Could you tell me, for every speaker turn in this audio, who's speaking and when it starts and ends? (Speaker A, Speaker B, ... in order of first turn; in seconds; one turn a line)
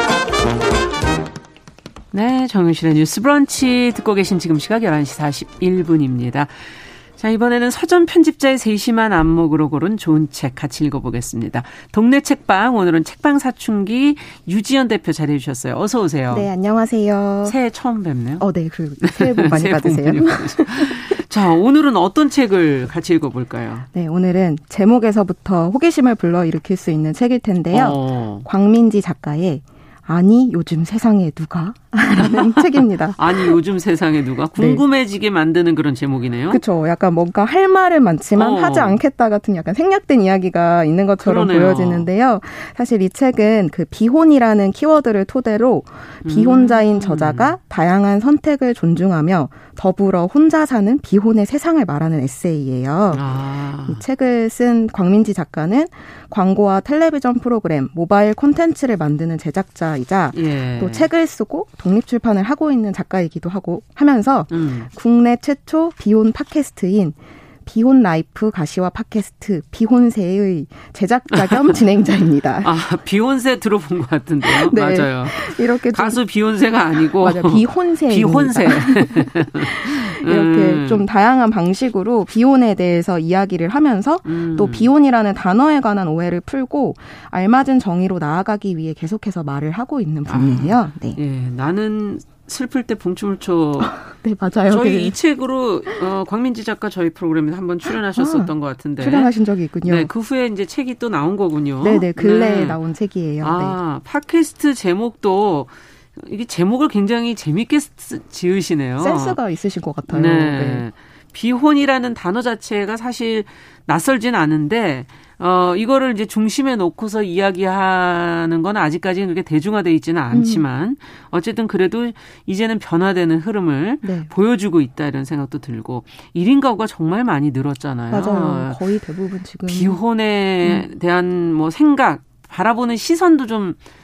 Speaker A: 2.1-16.5
Speaker B: 16.3-17.6
Speaker A: 17.4-18.5
Speaker B: 18.4-21.2
Speaker A: 19.0-23.9
Speaker B: 23.9-33.6
Speaker A: 27.7-28.5
Speaker A: 32.2-36.6
Speaker B: 34.6-34.8
Speaker B: 36.5-53.2
Speaker A: 38.4-39.0
Speaker A: 41.2-42.1
Speaker A: 46.2-47.5
Speaker A: 53.1-54.0
Speaker B: 53.9-72.7
Speaker A: 60.3-61.1
Speaker A: 64.5-64.9
Speaker A: 71.3-71.8
Speaker A: 72.6-81.0
Speaker B: 74.4-76.2
Speaker B: 77.0-91.2
Speaker A: 84.2-84.9
Speaker A: 90.3-99.3
Speaker B: 93.9-95.2
Speaker B: 98.2-100.1
Speaker A: 99.9-102.8
Speaker B: 101.8-103.8
Speaker A: 103.4-109.4
Speaker B: 109.0-110.9
Speaker A: 110.1-128.8
Speaker B: 120.3-120.7
Speaker B: 124.0-124.3
Speaker B: 128.1-130.0
Speaker A: 129.7-133.8